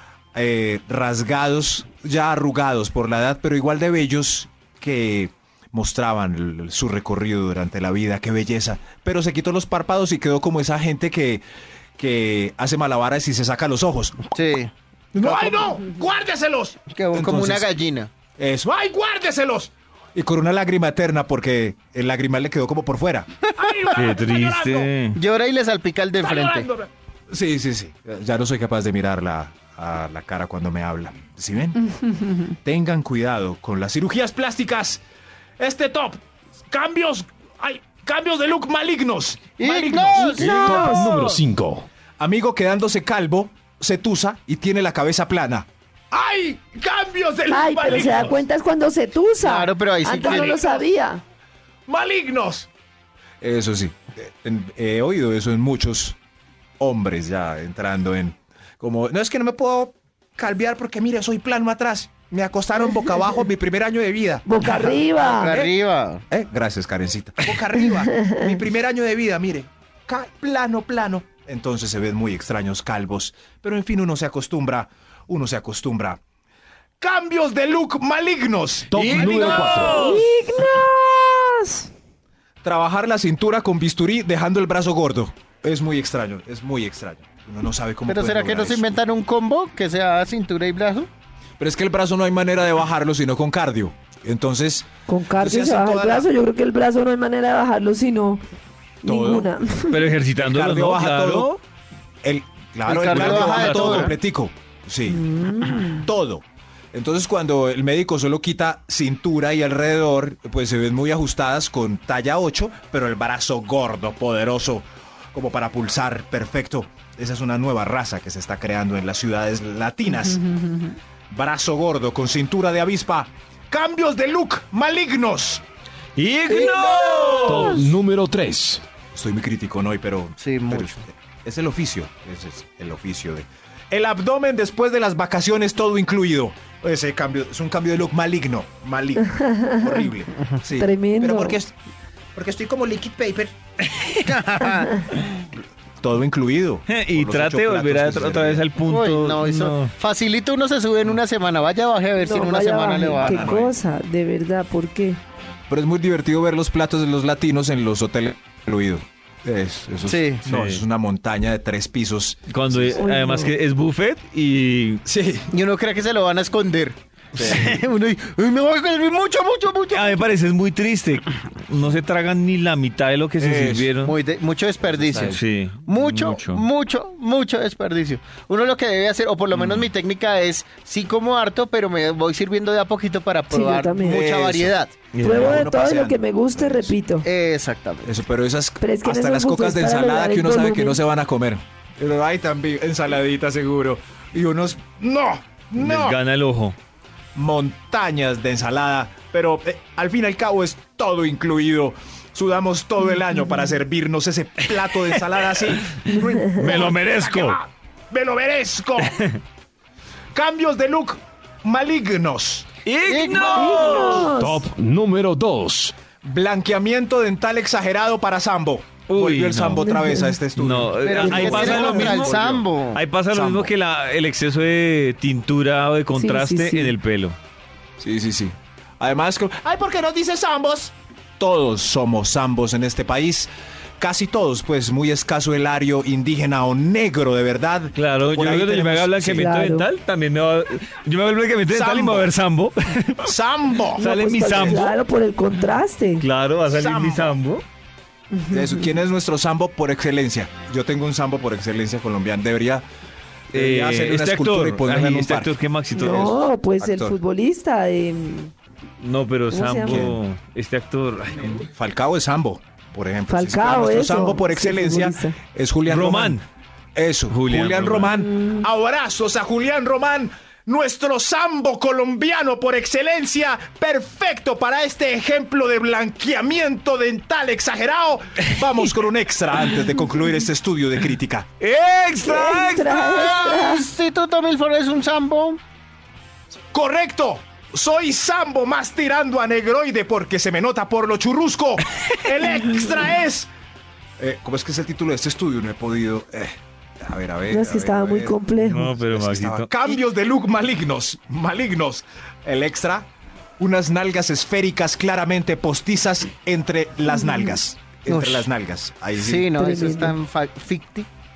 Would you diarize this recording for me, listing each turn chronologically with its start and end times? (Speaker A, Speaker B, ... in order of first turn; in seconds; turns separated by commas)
Speaker A: 0.3-11.4, Speaker A: 12.0-14.2, Speaker B: 14.3-14.7, Speaker A: 15.1-17.7, Speaker B: 15.2-15.8, Speaker B: 16.9-18.1, Speaker A: 18.4-24.9, Speaker C: 23.9-25.2, Speaker B: 25.1-26.7, Speaker A: 26.2-35.0, Speaker A: 35.6-41.3, Speaker B: 39.6-40.6, Speaker D: 40.1-41.1, Speaker E: 40.4-41.9, Speaker A: 42.2-48.4, Speaker D: 47.5-51.2, Speaker B: 49.4-50.6, Speaker A: 50.0-50.9, Speaker A: 51.9-52.7, Speaker A: 53.4-56.2, Speaker A: 56.8-65.7, Speaker D: 64.5-65.5, Speaker B: 65.2-66.2, Speaker A: 66.3-76.2, Speaker A: 77.0-80.0, Speaker E: 78.9-80.1, Speaker C: 78.9-80.3, Speaker D: 79.9-81.9, Speaker A: 82.6-89.0, Speaker B: 88.1-91.1, Speaker A: 91.6-96.3, Speaker D: 95.1-98.4, Speaker D: 99.0-100.0, Speaker A: 99.0-99.6, Speaker C: 99.9-101.6, Speaker A: 100.3-101.5, Speaker A: 102.2-105.2, Speaker B: 102.9-104.1, Speaker C: 103.0-104.1, Speaker D: 105.1-106.1, Speaker A: 106.0-120.8, Speaker A: 121.3-125.6, Speaker C: 126.2-127.8, Speaker B: 126.5-127.6, Speaker E: 127.4-128.8, Speaker A: 129.1-141.7, Speaker B: 130.4-130.9, Speaker D: 140.8-141.6, Speaker A: 142.3-143.5, Speaker C: 144.0-144.3, Speaker B: 144.2-145.1, Speaker A: 146.0-148.6, Speaker C: 146.9-149.9, Speaker B: 148.9-153.5, Speaker D: 152.2-155.2, Speaker A: 153.2-153.7, Speaker A: 155.7-163.0, Speaker B: 160.0-160.4, Speaker C: 160.4-160.8, Speaker C: 162.5-165.0, Speaker D: 163.0-163.5, Speaker A: 165.1-165.5, Speaker B: 165.5-170.2, Speaker C: 167.4-167.8, Speaker C: 169.9-174.1, Speaker A: 173.4-173.9, Speaker B: 174.0-185.0, Speaker A: 174.9-175.4, Speaker C: 175.1-176.7, Speaker C: 179.5-179.8, Speaker D: 183.5-184.2, Speaker A: 184.0-186.9, Speaker C: 185.1-185.6, Speaker D: 185.2-187.2, Speaker B: 187.2-188.1, Speaker A: 188.0-196.2, Speaker D: 188.8-191.0, Speaker C: 195.8-196.8, Speaker A: 197.3-209.2, Speaker C: 205.2-207.6, Speaker A: 210.3-212.7, Speaker C: 212.8-214.3, Speaker B: 213.0-213.9, Speaker A: 213.3-214.3, Speaker D: 213.6-214.6, Speaker E: 214.2-215.9, Speaker A: 216.2-222.6, Speaker C: 219.1-219.9, Speaker D: 219.8-220.4, Speaker C: 220.5-227.4, Speaker B: 221.0-223.0, Speaker A: 223.3-223.7, Speaker D: 226.1-227.0, Speaker A: 228.0-239.5, Speaker C: 237.9-243.3, Speaker D: 239.3-239.9, Speaker A: 241.7-242.3, Speaker A: 243.2-244.8, Speaker C: 243.9-245.0, Speaker D: 244.0-246.3, Speaker C: 246.2-247.6, Speaker A: 246.7-247.4, Speaker D: 248.3-248.9, Speaker A: 248.5-252.8, Speaker A: 253.5-257.2, Speaker C: 253.5-256.4, Speaker D: 255.9-258.5, Speaker C: 259.0-261.6, Speaker D: 259.5-260.1, Speaker A: 259.8-260.2, Speaker A: 261.4-266.4, Speaker D: 263.3-265.4, Speaker C: 265.9-266.4, Speaker A: 266.9-281.5, Speaker C: 267.3-268.1, Speaker D: 268.3-268.6, Speaker C: 281.6-283.6, Speaker D: 282.2-283.9, Speaker B: 282.9-285.6, Speaker A: 286.7-293.5, Speaker A: 294.2-309.5, Speaker D: 297.5-298.9, Speaker C: 298.6-299.7, Speaker B: 308.1-308.5, Speaker B: 309.1-311.1, Speaker D: 309.5-310.1